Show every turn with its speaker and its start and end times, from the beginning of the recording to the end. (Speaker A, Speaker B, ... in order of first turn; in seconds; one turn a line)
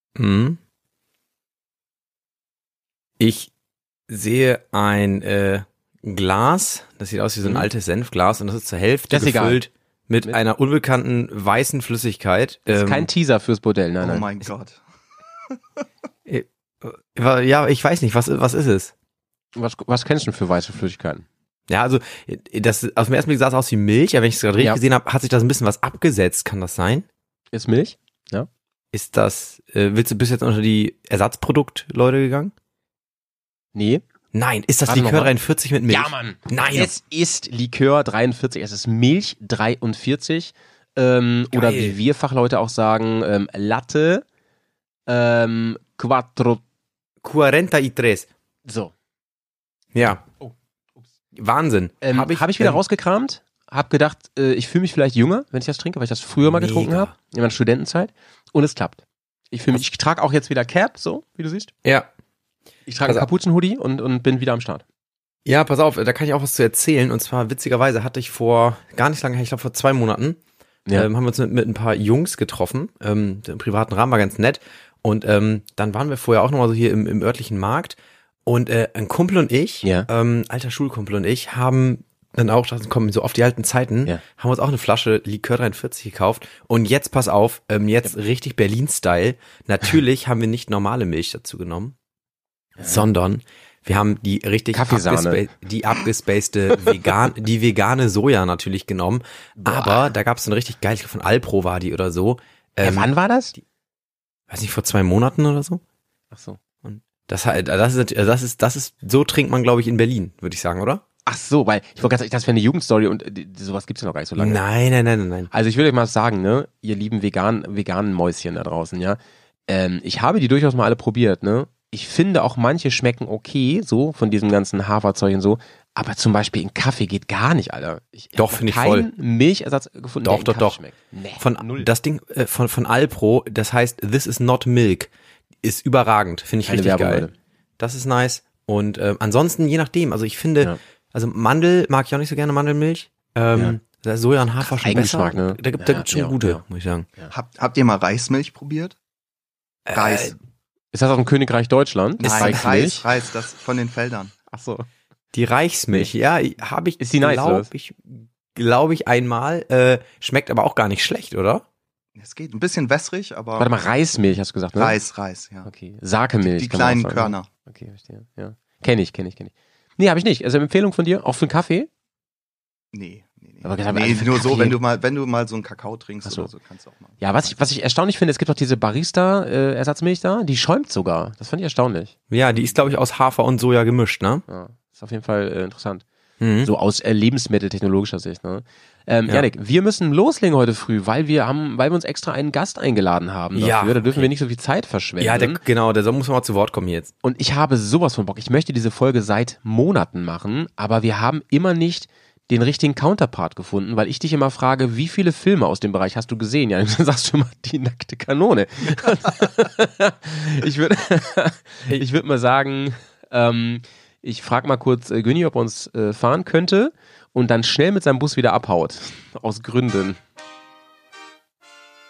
Speaker A: 0.1-0.6
Speaker A: 3.2-3.5
Speaker A: 4.1-13.1
Speaker B: 9.1-9.6
Speaker B: 12.7-14.3
Speaker C: 14.0-14.8
Speaker A: 16.3-18.9
Speaker B: 19.5-21.2
Speaker A: 21.7-27.1
Speaker B: 27.5-28.5
Speaker A: 28.9-32.5
Speaker B: 33.7-34.0
Speaker A: 34.3-37.0
Speaker B: 34.9-35.3
Speaker B: 35.9-44.2
Speaker A: 41.5-42.0
Speaker B: 45.1-46.6
Speaker A: 47.2-48.3
Speaker B: 48.6-48.9
Speaker A: 49.9-50.2
Speaker B: 50.4-51.0
Speaker A: 51.3-52.8
Speaker B: 52.0-61.7
Speaker A: 56.4-57.1
Speaker B: 62.9-64.8
Speaker A: 63.0-63.3
Speaker A: 65.4-70.4
Speaker A: 70.9-91.9
Speaker B: 79.8-80.1
Speaker B: 92.8-93.0
Speaker A: 92.8-103.6
Speaker B: 94.7-95.4
Speaker B: 99.6-100.1
Speaker B: 102.8-103.5
Speaker A: 104.5-105.8
Speaker B: 106.3-106.6
Speaker A: 106.8-111.0
Speaker B: 111.2-114.6
Speaker A: 114.4-115.5
Speaker B: 115.5-131.9
Speaker A: 128.3-129.1
Speaker A: 130.2-130.8
Speaker A: 131.4-135.1
Speaker A: 135.6-137.3
Speaker B: 136.7-137.3
Speaker A: 137.8-147.1
Speaker B: 144.6-146.6
Speaker C: 147.3-148.9
Speaker A: 149.9-150.3
Speaker C: 149.9-150.3
Speaker B: 150.9-153.1
Speaker C: 152.2-154.3
Speaker A: 152.3-152.6
Speaker B: 154.5-154.8
Speaker A: 155.3-161.6
Speaker B: 157.0-157.7
Speaker C: 162.2-163.7
Speaker B: 163.6-164.9
Speaker C: 164.8-165.7
Speaker B: 165.6-171.9
Speaker C: 166.4-167.5
Speaker C: 172.9-177.2
Speaker B: 173.6-174.8
Speaker B: 176.2-176.5
Speaker B: 177.2-182.1
Speaker A: 182.3-184.4
Speaker B: 184.5-186.0
Speaker A: 186.4-186.7
Speaker B: 186.6-195.6
Speaker A: 193.5-194.3
Speaker A: 195.2-197.1
Speaker B: 197.2-220.2